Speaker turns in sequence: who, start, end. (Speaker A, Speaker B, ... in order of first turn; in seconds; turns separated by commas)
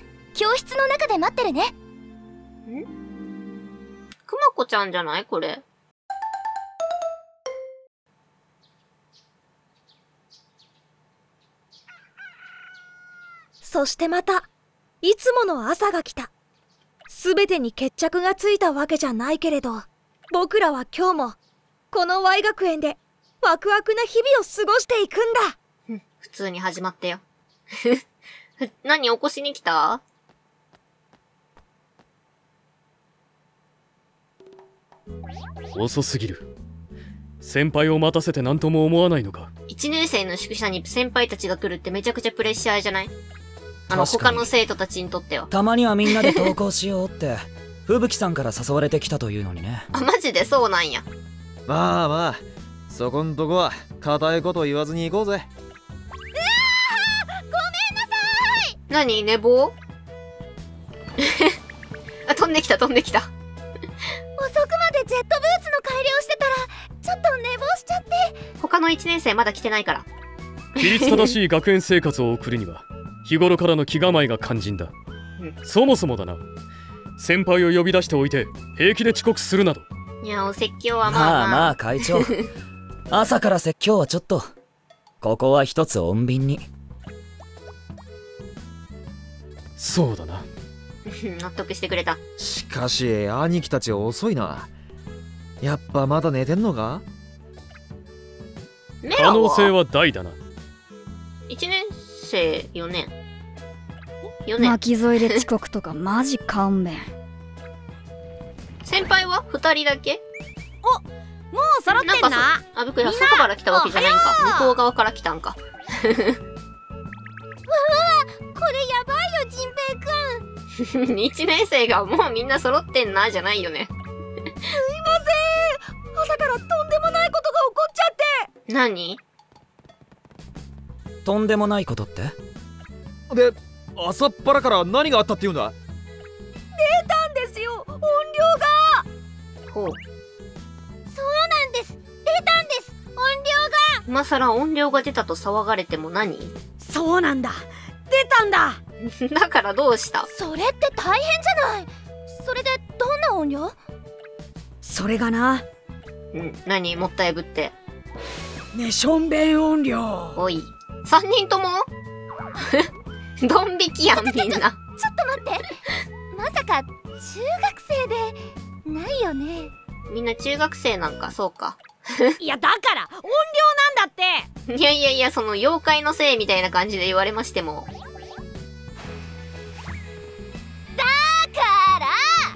Speaker A: 0.3-1.7, Speaker B: 4.3-5.6, Speaker C: 13.6-14.5, Speaker C: 15.0-16.3, Speaker C: 17.1-21.4, Speaker C: 21.9-25.5, Speaker B: 25.9-27.2, Speaker B: 27.7-28.0, Speaker B: 28.6-30.0, Speaker D: 35.7-36.5, Speaker D: 37.4-39.5, Speaker B: 39.7-43.1, Speaker B: 43.9-45.5, Speaker E: 43.9-44.5, Speaker E: 45.5-49.8, Speaker B: 46.0-46.5, Speaker B: 49.9-51.0, Speaker F: 51.7-55.5, Speaker A: 56.4-58.7, Speaker B: 58.9-59.7, Speaker B: 61.2-61.5, Speaker B: 62.3-63.3, Speaker A: 64.4-68.3, Speaker B: 68.6-70.0, Speaker B: 70.8-71.3, Speaker D: 70.8-74.9, Speaker D: 75.6-76.4, Speaker D: 77.2-79.8, Speaker B: 80.2-82.3, Speaker E: 81.1-82.3, Speaker E: 83.1-84.5, Speaker E: 85.2-86.7, Speaker D: 89.8-90.4, Speaker B: 91.0-92.2, Speaker F: 92.4-94.7, Speaker F: 95.6-97.0, Speaker B: 99.0-99.7, Speaker D: 99.2-100.3, Speaker B: 101.5-103.1, Speaker B: 104.5-105.4, Speaker G: 104.6-107.0, Speaker B: 108.8-110.2, Speaker H: 110.8-114.7, Speaker B: 112.0-116.4, Speaker A: 117.7-120.4, Speaker B: 120.8-123.9, Speaker C: 124.7-128.5, Speaker B: 128.7-129.2, Speaker E: 131.2-132.3, Speaker F: 133.3-135.7, Speaker C: 136.7-139.1, Speaker B: 139.7-140.0, Speaker A: 141.1-144.0, Speaker B: 144.1-146.5, Speaker H: 146.8-148.8, Speaker B: 149.0-150.3, Speaker A: 150.3-153.8, Speaker H: 154.8-155.6, Speaker B: 156.3-157.7, Speaker H: 158.7-160.4, Speaker B: 160.3-161.9, Speaker B: 163.4-164.8, Speaker A: 164.1-165.7, Speaker A: 166.3-169.7, Speaker B: 170.1-172.4, Speaker H: 172.4-174.5, Speaker B: 174.7-177.9